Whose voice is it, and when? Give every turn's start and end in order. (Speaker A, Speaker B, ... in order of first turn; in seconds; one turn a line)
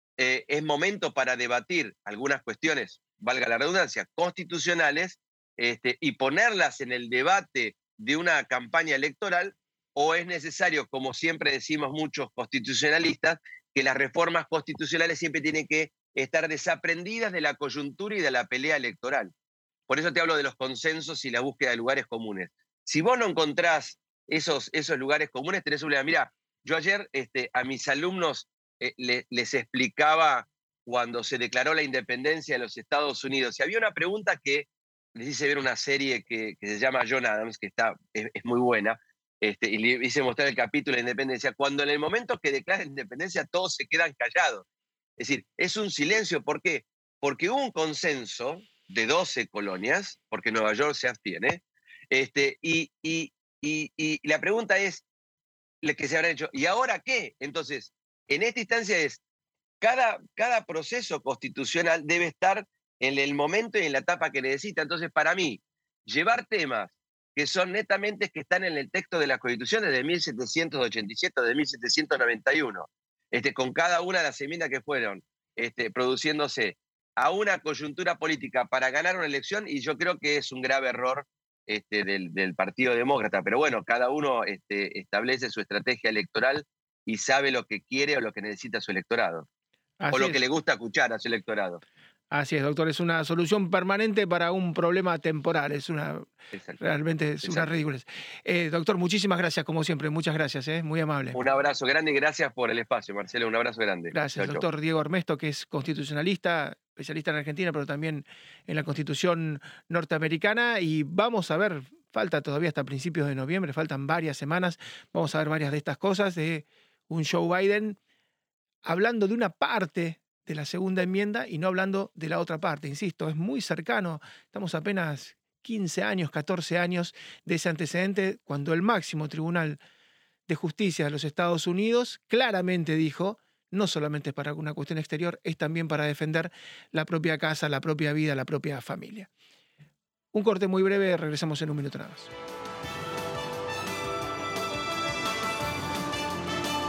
Speaker A: 0.2-19.3
Speaker A: 19.9-44.6
Speaker A: 45.2-55.0
Speaker A: 55.8-59.2
Speaker A: 59.8-89.5
Speaker B: 90.0-90.4
Speaker A: 90.1-91.8
Speaker B: 92.3-101.4
Speaker A: 96.5-96.8
Speaker A: 97.4-97.7
Speaker A: 101.3-104.6
Speaker B: 104.1-118.0
Speaker B: 118.8-129.8
Speaker B: 130.5-139.3
Speaker B: 140.3-142.3